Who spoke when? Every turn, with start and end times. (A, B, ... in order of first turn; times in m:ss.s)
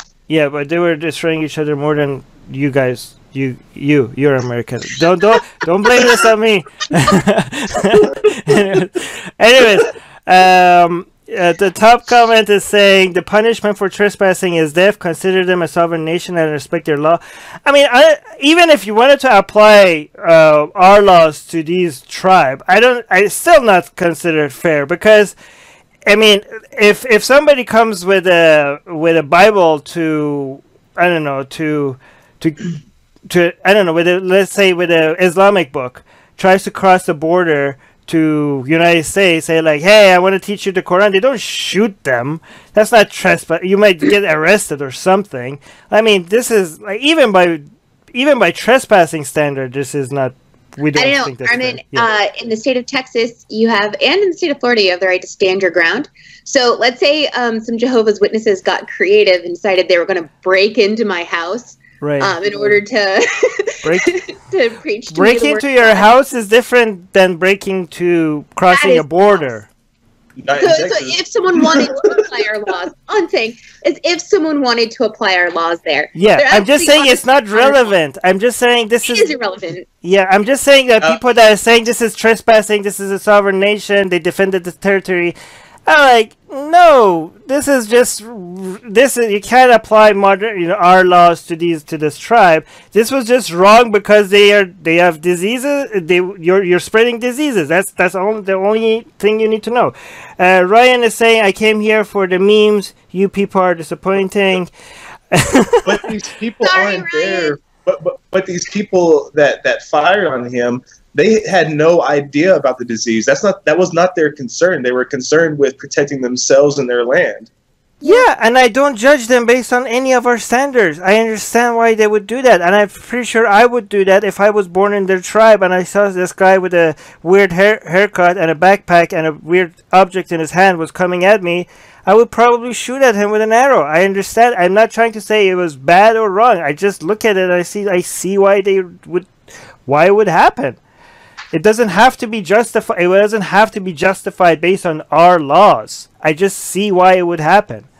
0:00.3-0:25.4 A
0:26.0-0:32.7 A
0:33.3-0:52.1 A
0:50.9-1:06.0 B
1:02.0-1:02.4 A
1:03.8-1:04.1 A
1:05.1-1:09.7 A
1:08.7-1:09.5 B
1:10.4-1:11.9 C
1:10.6-1:17.9 B
1:16.1-1:19.3 A
1:19.0-1:19.8 B
1:20.0-1:25.4 A
1:25.9-1:44.7 A
1:45.3-1:45.9 A
1:45.8-1:57.5 C
1:46.6-1:47.6 B
1:58.0-2:19.3 A
2:19.8-2:20.8 A
2:21.5-2:27.9 A